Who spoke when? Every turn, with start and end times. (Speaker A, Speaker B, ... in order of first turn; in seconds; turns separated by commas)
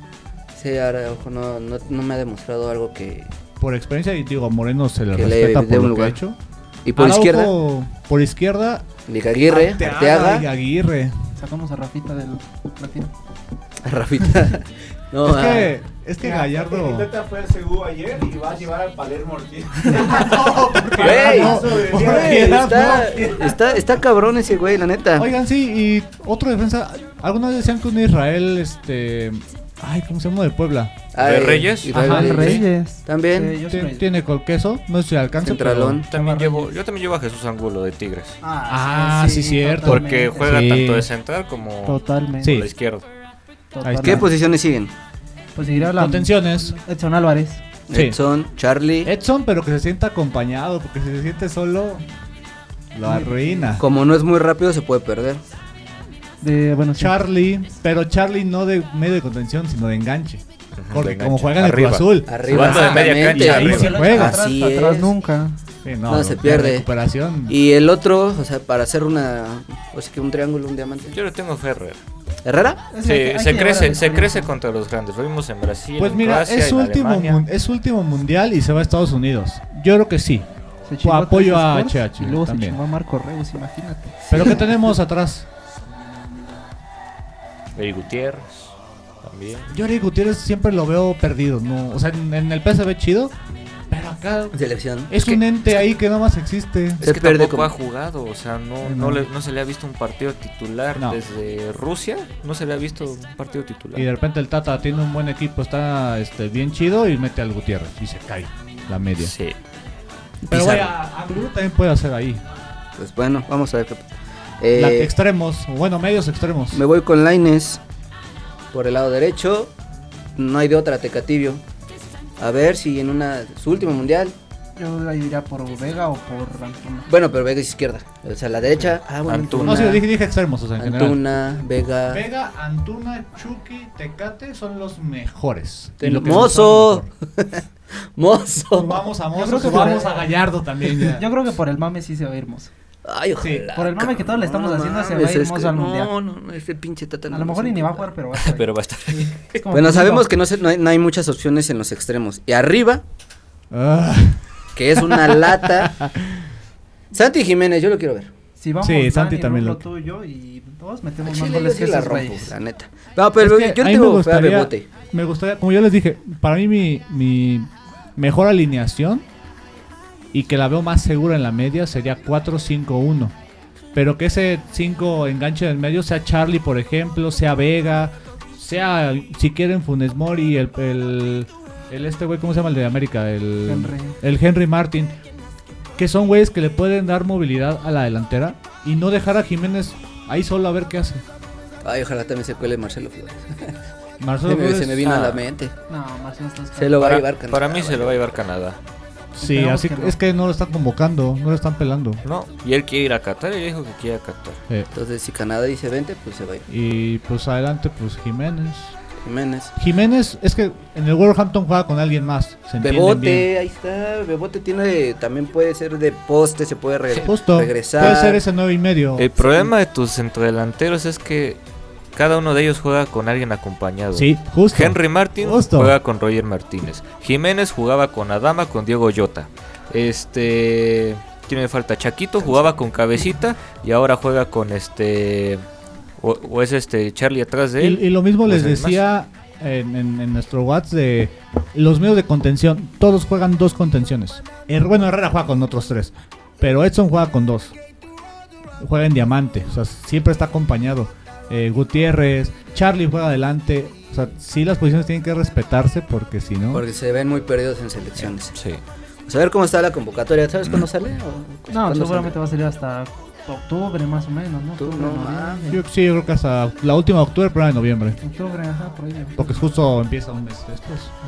Speaker A: 0.5-3.3, Speaker B: 3.6-6.4, Speaker A: 5.1-6.2, Speaker A: 6.8-7.5, Speaker B: 6.9-8.9, Speaker A: 9.1-10.5, Speaker B: 9.5-11.3, Speaker C: 11.4-13.1, Speaker A: 13.8-15.8, Speaker B: 15.2-17.1, Speaker D: 16.2-23.4, Speaker B: 19.9-23.8, Speaker A: 21.0-25.3, Speaker B: 25.2-31.1, Speaker A: 31.1-33.6, Speaker E: 31.2-32.7, Speaker B: 31.9-32.6, Speaker C: 32.0-34.1, Speaker B: 33.7-36.0, Speaker A: 35.4-36.1, Speaker E: 36.1-38.4, Speaker C: 36.1-36.8, Speaker C: 38.4-40.7, Speaker B: 38.7-41.1, Speaker E: 39.8-43.1, Speaker C: 41.9-42.6, Speaker B: 42.4-42.7, Speaker C: 43.7-44.3, Speaker B: 43.8-44.3, Speaker A: 44.0-44.9, Speaker C: 45.5-47.6, Speaker B: 45.8-46.8, Speaker A: 47.9-49.1, Speaker B: 47.9-48.2, Speaker B: 49.0-52.1, Speaker B: 52.9-53.9, Speaker C: 53.0-53.8, Speaker A: 53.8-55.4, Speaker C: 56.4-57.2, Speaker B: 57.0-64.4, Speaker E: 60.8-64.2, Speaker A: 62.3-65.2, Speaker C: 63.5-65.6, Speaker B: 65.8-67.6, Speaker A: 66.1-66.9, Speaker A: 67.5-71.2, Speaker E: 71.1-72.0, Speaker A: 72.5-72.8, Speaker C: 72.9-74.5, Speaker E: 73.0-77.4, Speaker B: 76.0-80.5, Speaker C: 80.9-84.7, Speaker B: 81.0-82.8, Speaker A: 84.3-84.7, Speaker B: 84.3-85.5, Speaker E: 87.8-89.7, Speaker B: 89.7-93.3, Speaker B: 93.9-97.0, Speaker A: 94.5-95.4, Speaker E: 97.0-104.1, Speaker A: 97.0-97.7, Speaker C: 98.8-99.2, Speaker B: 101.0-101.2, Speaker B: 104.0-109.3, Speaker E: 109.2-109.5, Speaker A: 110.5-110.9, Speaker B: 110.5-112.4, Speaker A: 113.0-114.1, Speaker A: 114.6-115.1, Speaker B: 114.7-116.8, Speaker A: 116.7-117.8, Speaker A: 118.7-119.7, Speaker A: 120.4-121.6, Speaker A: 122.4-124.3, Speaker C: 124.8-127.1, Speaker A: 127.1-130.1, Speaker E: 129.3-130.0, Speaker B: 129.6-131.2, Speaker A: 130.8-132.2, Speaker B: 132.1-137.1, Speaker A: 136.0-137.7, Speaker A: 138.2-139.1, Speaker B: 138.7-141.3, Speaker C: 139.3-140.3, Speaker A: 139.6-139.9, Speaker C: 141.2-142.7, Speaker A: 143.0-148.1, Speaker B: 143.4-143.7, Speaker C: 143.8-146.1, Speaker C: 147.3-150.3, Speaker E: 148.4-149.5, Speaker A: 149.7-153.0, Speaker B: 153.7-154.4, Speaker A: 154.8-156.0, Speaker B: 155.0-156.3, Speaker A: 157.1-158.3, Speaker C: 158.6-162.5, Speaker B: 158.8-159.8, Speaker A: 161.2-164.9, Speaker B: 163.4-169.3, Speaker B: 170.3-173.3, Speaker B: 173.9-185.2, Speaker C: 183.7-184.2, Speaker B: 186.0-191.2, Speaker A: 191.8-193.8, Speaker B: 194.2-195.3, Speaker A: 194.4-195.7, Speaker E: 195.1-195.4, Speaker C: 195.9-197.1, Speaker A: 196.8-198.4, Speaker E: 197.0-198.8, Speaker B: 199.4-202.2, Speaker C: 199.4-200.2, Speaker E: 202.2-204.6, Speaker A: 204.9-206.7, Speaker B: 206.7-208.9, Speaker A: 209.2-209.7, Speaker B: 209.8-213.5, Speaker A: 212.8-218.4, Speaker B: 217.2-219.3, Speaker E: 218.0-218.3, Speaker E: 219.2-221.6, Speaker A: 219.4-219.7, Speaker E: 222.2-235.7, Speaker B: 224.1-226.0, Speaker E: 236.2-239.0, Speaker B: 237.8-247.8, Speaker B: 248.8-256.9, Speaker A: 256.7-258.6, Speaker E: 258.6-258.8, Speaker A: 259.3-262.4, Speaker C: 261.7-265.8, Speaker A: 264.8-265.7, Speaker B: 265.7-268.2, Speaker C: 268.2-269.7, Speaker B: 269.4-271.2